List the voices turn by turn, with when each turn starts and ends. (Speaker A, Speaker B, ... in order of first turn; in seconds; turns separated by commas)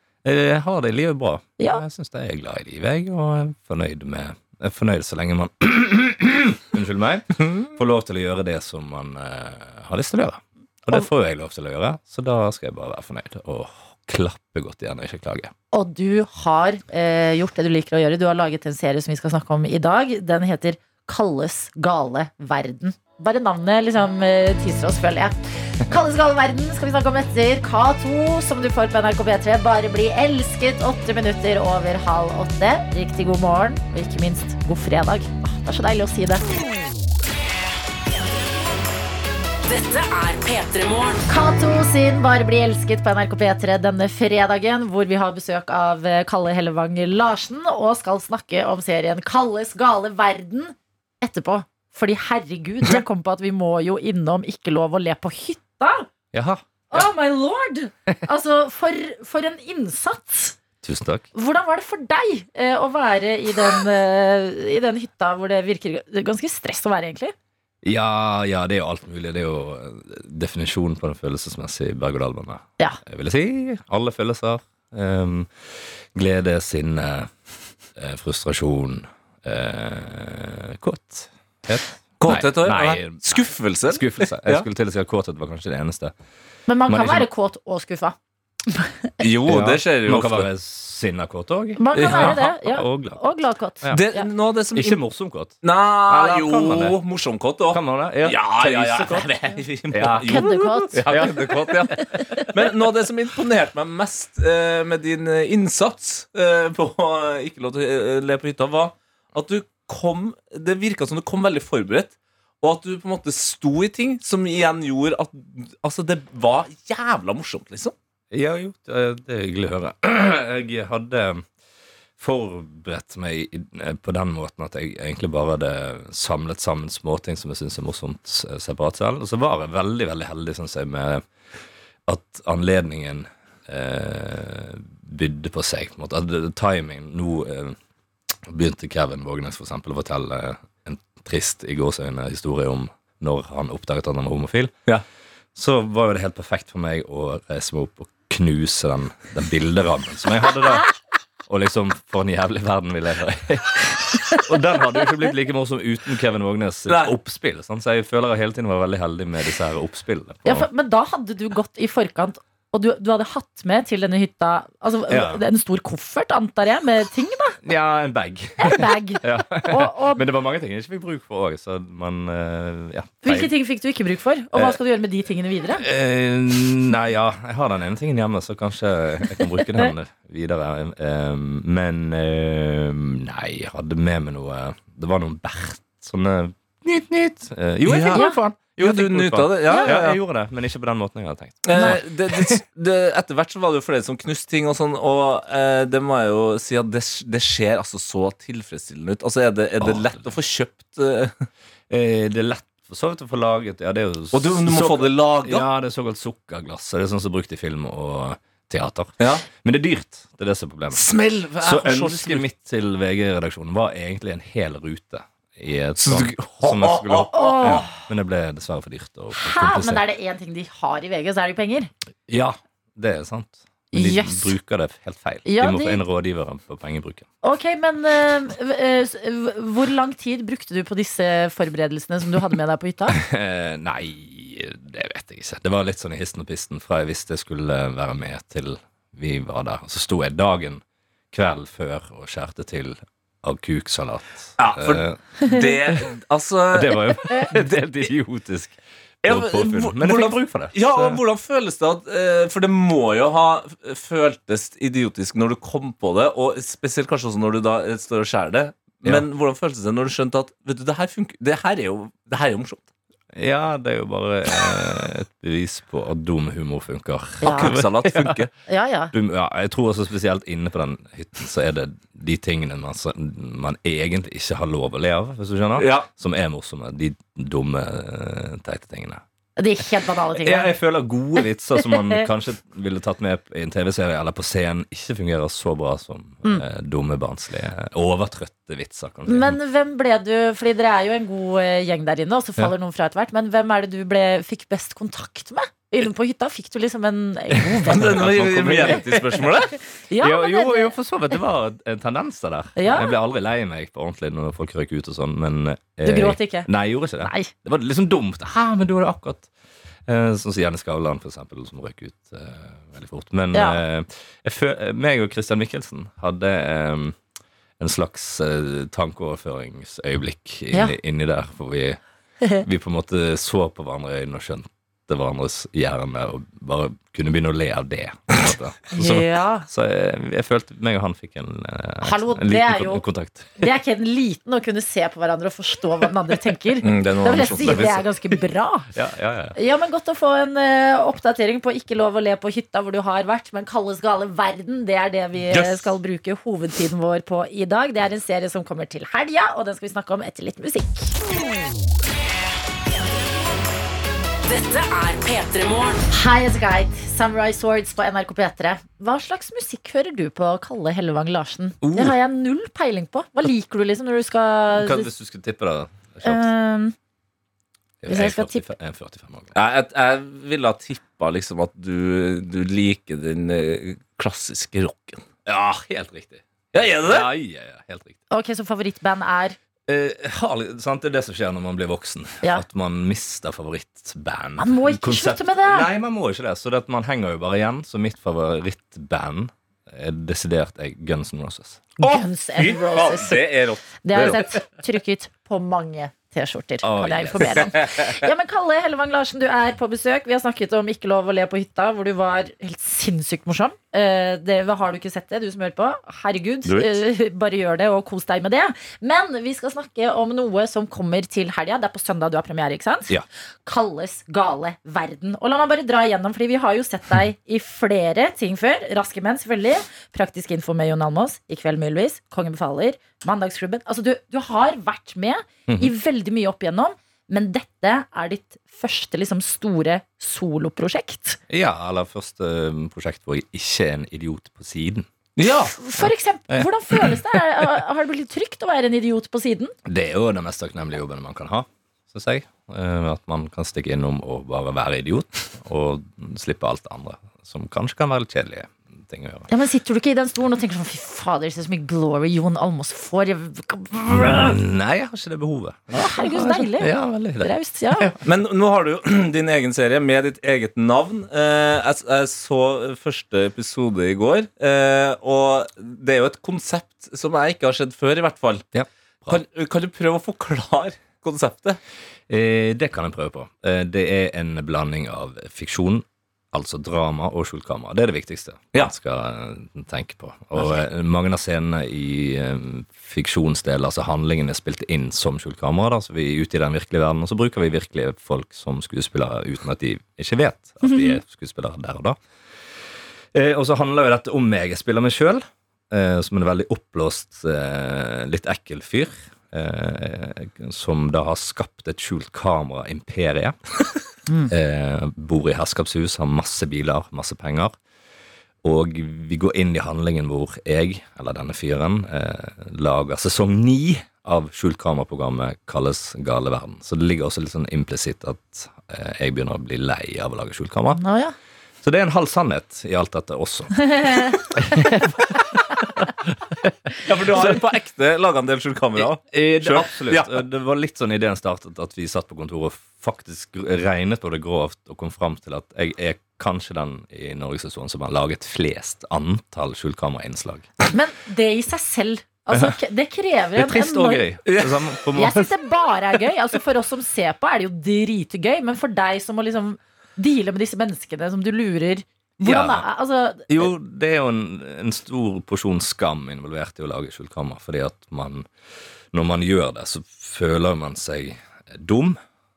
Speaker A: 0.2-15.5, Speaker B: 1.6-1.8, Speaker B: 15.7-36.4, Speaker C: 39.7-41.3, Speaker B: 41.3-56.1, Speaker A: 56.3-57.1, Speaker B: 56.9-60.6, Speaker A: 60.8-61.2, Speaker B: 61.4-67.3, Speaker A: 67.8-75.5, Speaker A: 76.1-77.3, Speaker A: 78.0-86.1, Speaker D: 82.2-84.7, Speaker B: 86.7-88.2, Speaker A: 86.9-87.3, Speaker D: 89.2-90.5, Speaker A: 89.5-93.3, Speaker B: 91.8-94.3, Speaker D: 92.0-92.4, Speaker D: 93.9-95.0, Speaker A: 94.7-97.0, Speaker D: 95.6-118.0, Speaker A: 97.7-99.4, Speaker A: 99.9-102.4, Speaker B: 100.2-101.0, Speaker B: 102.0-102.5, Speaker A: 118.3-121.5, Speaker A: 122.2-131.2, Speaker A: 132.1-137.8, Speaker A: 138.5-144.8, Speaker A: 145.6-150.9, Speaker A: 151.5-160.7, Speaker D: 156.9-157.2, Speaker B: 160.4-167.6, Speaker A: 165.1-165.4, Speaker A: 167.7-173.5, Speaker B: 168.6-170.2, Speaker B: 173.2-175.8, Speaker A: 174.5-174.8, Speaker A: 175.8-192.6, Speaker D: 187.8-190.2, Speaker B: 188.1-188.4, Speaker B: 189.7-189.9, Speaker D: 191.6-201.4, Speaker A: 199.8-200.3, Speaker A: 201.9-211.1, Speaker D: 204.3-205.7, Speaker D: 210.9-212.5, Speaker A: 211.6-220.0, Speaker D: 216.0-217.9, Speaker B: 217.3-217.9, Speaker B: 219.4-221.9, Speaker A: 222.3-227.3, Speaker B: 223.9-224.6, Speaker B: 225.4-226.0, Speaker B: 227.4-233.2, Speaker A: 233.1-245.5, Speaker D: 244.6-247.6, Speaker A: 246.7-251.2, Speaker D: 249.2-262.9, Speaker A: 263.4-268.4, Speaker B: 267.4-267.8, Speaker D: 267.4-268.5, Speaker B: 268.7-269.1, Speaker A: 269.1-279.2, Speaker D: 275.8-276.1, Speaker B: 279.6-280.8, Speaker A: 280.3-289.6, Speaker B: 289.3-298.3, Speaker A: 297.7-299.2, Speaker D: 297.8-299.8, Speaker B: 300.1-301.0, Speaker A: 300.2-309.5, Speaker B: 302.8-303.2, Speaker B: 306.1-307.5, Speaker A: 310.1-317.2, Speaker B: 313.5-313.8, Speaker A: 317.8-322.0, Speaker A: 322.6-333.7, Speaker B: 328.9-329.7, Speaker B: 332.0-333.1, Speaker B: 333.6-338.9, Speaker D: 336.8-338.0, Speaker A: 337.6-338.0, Speaker A: 338.9-339.6, Speaker B: 339.6-351.1, Speaker D: 345.5-345.9, Speaker C: 354.4-356.1, Speaker B: 356.1-365.1, Speaker A: 364.8-366.5, Speaker B: 366.2-366.9, Speaker A: 368.0-369.5, Speaker B: 368.1-368.7, Speaker D: 369.6-375.3, Speaker A: 375.4-378.2, Speaker D: 376.7-377.3, Speaker B: 378.3-379.6, Speaker A: 379.9-391.9, Speaker B: 384.6-385.9, Speaker B: 392.0-393.5, Speaker D: 392.0-394.4, Speaker B: 394.0-413.1, Speaker A: 396.8-397.9, Speaker B: 413.6-431.4, Speaker A: 425.7-425.9, Speaker A: 431.5-435.1, Speaker D: 435.4-435.7, Speaker B: 435.8-439.7, Speaker A: 436.0-437.6, Speaker A: 439.9-449.5, Speaker B: 449.5-454.6, Speaker A: 454.1-458.2, Speaker B: 455.9-458.1, Speaker D: 458.2-468.7, Speaker A: 468.7-469.4, Speaker D: 469.3-471.8, Speaker A: 472.3-492.2, Speaker B: 490.9-491.2, Speaker A: 493.3-503.6, Speaker A: 504.5-507.8, Speaker A: 508.6-521.0, Speaker B: 520.9-521.3, Speaker A: 521.8-527.6, Speaker B: 524.0-524.4, Speaker D: 527.0-530.4, Speaker A: 529.3-540.7, Speaker B: 540.9-544.3, Speaker A: 543.6-545.5, Speaker D: 544.5-544.9, Speaker B: 545.1-553.7, Speaker A: 552.4-552.9, Speaker A: 553.5-558.5, Speaker A: 559.1-562.2